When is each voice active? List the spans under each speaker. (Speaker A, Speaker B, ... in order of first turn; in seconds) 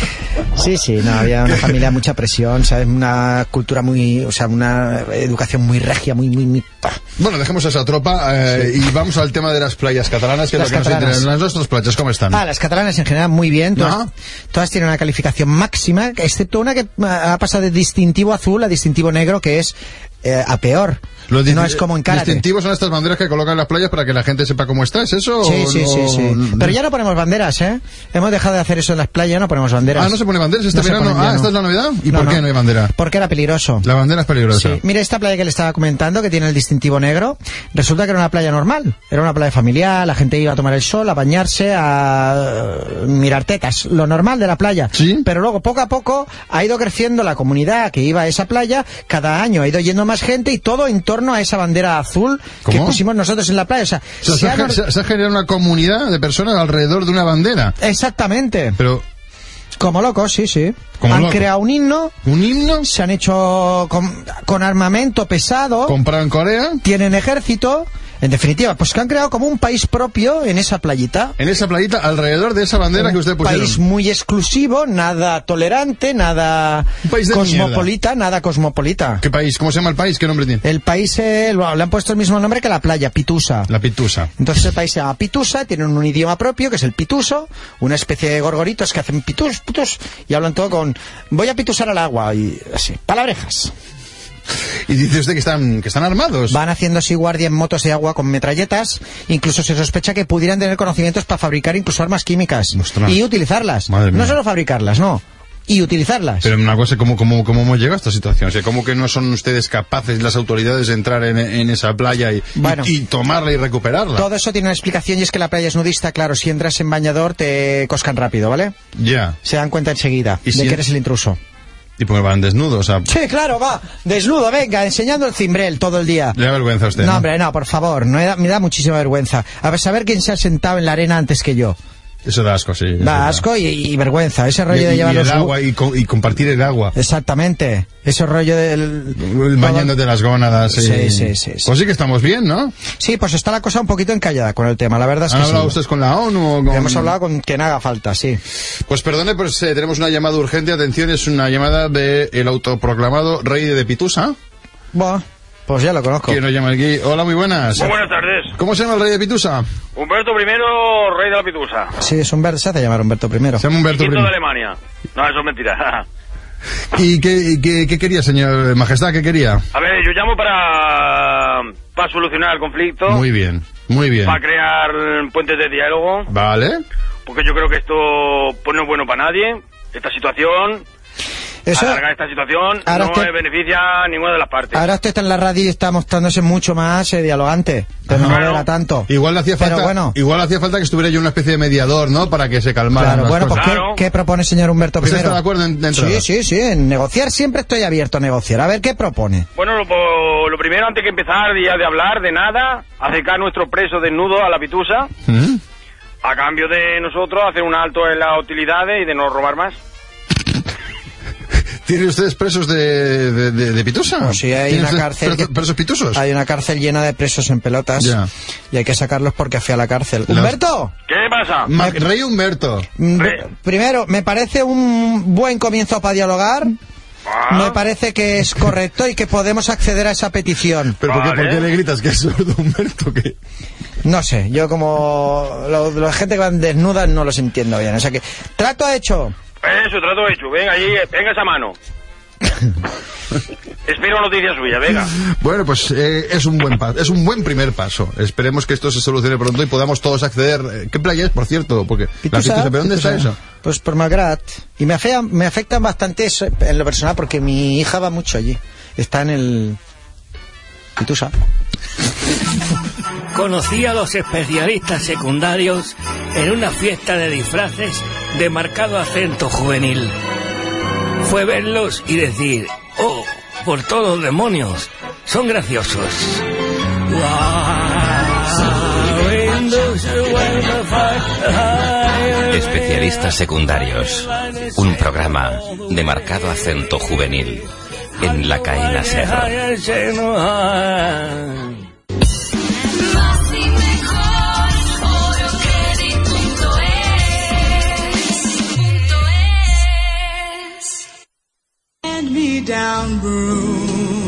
Speaker A: 0.5-7.0, 10.5-11.3, 12.3-22.4, 25.4-30.2, 30.7-31.5, 32.1-33.9, 34.5-54.8, 57.8-58.8, 59.8-62.1, 62.8-66.0, 66.8-71.3, 72.9-79.2, 80.6-83.7, 84.4-93.7, 96.5-106.5, 112.5-112.9, 114.1-118.7, 119.4-121.4, 123.0-126.4, 127.0-131.8, 133.0-135.6, 136.9-139.9, 140.7-141.7, 142.9-145.8, 146.7-148.4, 154.9-156.4, 162.0-163.6, 181.7-182.0, 182.8-183.3, 184.7-190.2, 192.9-199.5, 214.2-215.6, 216.1-218.2, 218.7-220.9, 221.7-222.0, 223.0-226.8, 227.5-231.0, 234.0-239.3, 252.2-259.8, 261.0-261.3
Speaker B: 7.2-12.4, 13.8-14.1, 21.3-26.7, 29.9-32.9, 33.8-34.8, 44.9-45.2, 52.6-53.0, 54.2-57.8, 58.8-59.0, 61.0-61.5, 62.2-62.9, 65.9-66.8, 71.4-73.8, 77.0-77.9, 79.2-80.6, 83.7-84.3, 94.9-96.6, 102.8-103.2, 103.9-104.3, 106.4-114.2, 119.0-119.4, 120.5-120.8, 122.0-123.1, 126.3-127.2, 132.2-133.4, 134.7-136.9, 139.2-142.7, 145.3-147.1, 148.9-154.3, 156.3-157.9, 158.5-159.7, 163.6-164.3, 166.9-169.6, 173.1-174.4, 176.3-176.8, 188.1-188.4, 189.1-193.8, 195.0-196.2, 205.3-205.6, 211.8-216.2, 218.0-218.3, 220.3-220.5, 221.7-222.9, 231.0-233.3, 245.3-253.4
Speaker C: 157.8-158.5, 159.9-161.9, 163.9-166.0, 169.7-173.2, 174.2-176.3, 177.2-180.8, 181.7-184.8, 188.2-188.6, 193.5-194.0, 199.6-205.1, 206.2-209.8, 221.1-221.7, 227.3-227.8, 231.1-231.7, 239.6-241.8, 243.9-245.1
Speaker D: 263.3-270.1, 271.2-276.4, 277.1-282.4, 288.8-291.8, 293.4-294.0, 295.8-296.3
Speaker E: 282.5-287.6, 288.2-289.5